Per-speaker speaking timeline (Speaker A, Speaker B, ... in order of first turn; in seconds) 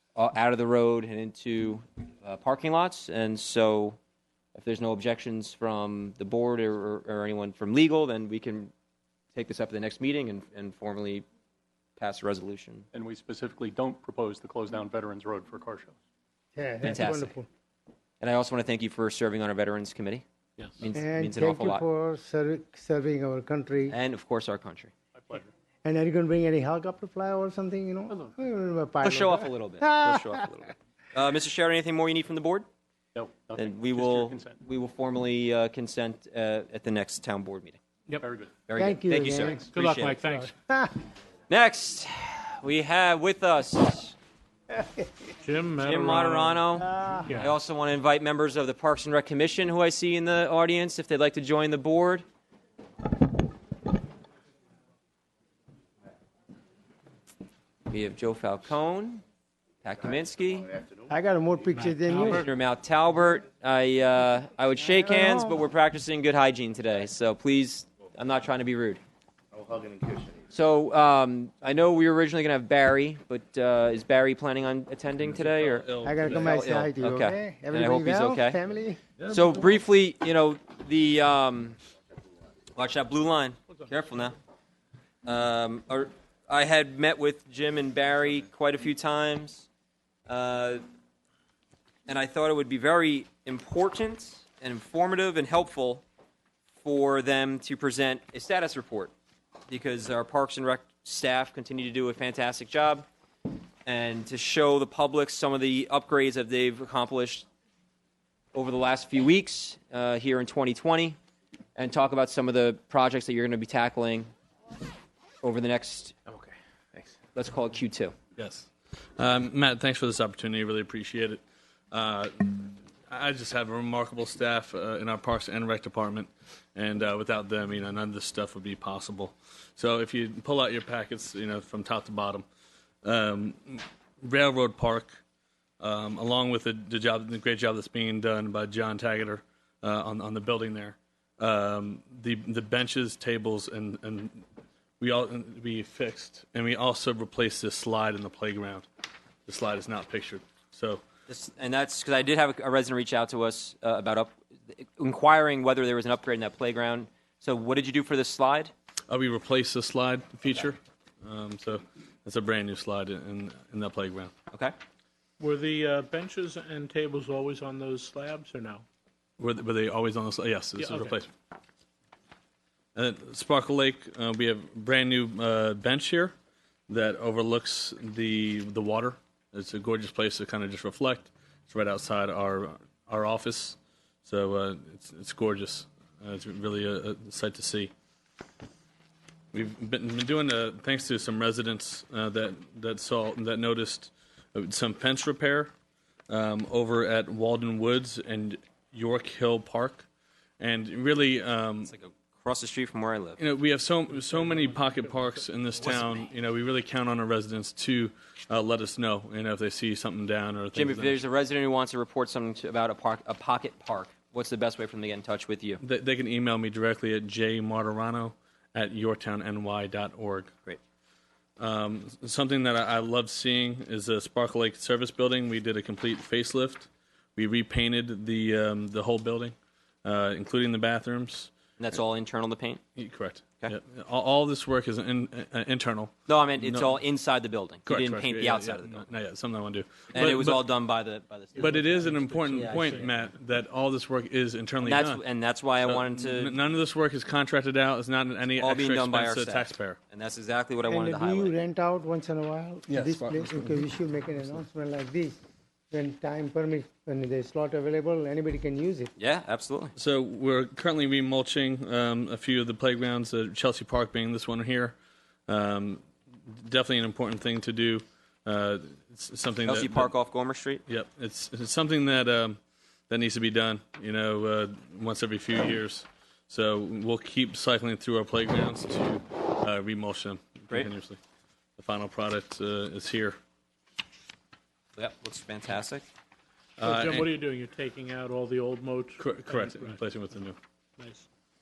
Speaker A: 0.2-4.0, 4.5-8.7, 9.3-11.2, 12.0-12.9, 16.8-17.4, 18.2-20.2, 20.8-21.8, 23.9-24.9, 29.0-32.7, 33.5-37.8, 38.7-40.2, 41.5-44.2, 45.8-52.2, 57.9-59.2, 59.8-60.8, 62.1-69.0, 70.5-78.6, 79.2-81.8, 82.8-84.4, 85.2-89.7, 90.3-90.8, 92.1-96.0, 96.8-99.1, 99.7-103.1, 103.8-107.5, 108.5-111.2, 111.8-114.3, 115.4-116.2, 117.3-118.2, 151.3-158.7, 201.8-203.4, 210.7-215.8, 231.8-232.8, 236.3-239.1, 240.1-243.1, 244.8-246.6, 248.6-251.5, 259.2-259.9, 269.7-270.8, 285.0-286.1
Speaker B: 12.9-16.0, 25.2-25.5, 33.1-34.6, 38.2-38.5, 116.4-117.0
Speaker C: 16.6-17.5, 20.9-23.9, 25.9-30.4, 38.8-39.6, 40.3-40.9, 44.8-45.1, 46.8-47.3, 61.1-62.5, 65.0-65.6, 76.0-79.1, 250.9-255.4, 255.9-259.1
Speaker D: 39.6-40.5, 45.4-46.7, 47.3-47.5, 61.8-62.5, 165.4-168.8, 170.8-171.2, 241.6-243.1, 286.8-290.0, 291.0-291.3
Speaker E: 75.3-76.7, 118.4-121.4, 121.9-132.4, 133.0-135.2, 135.8-144.4, 145.0-148.9, 149.5-151.0, 159.1-164.3, 169.4-171.3, 173.0-176.3, 176.9-187.9, 189.5-195.7, 196.3-200.1, 200.6-201.9, 203.4-211.2, 215.8-220.6, 221.6-231.5, 233.0-237.0, 237.9-240.7, 241.6-245.2, 245.8-250.0, 253.0-253.5, 260.0-265.0, 265.5-270.1, 270.9-281.2, 281.8-283.4, 286.8-287.3, 289.2-290.6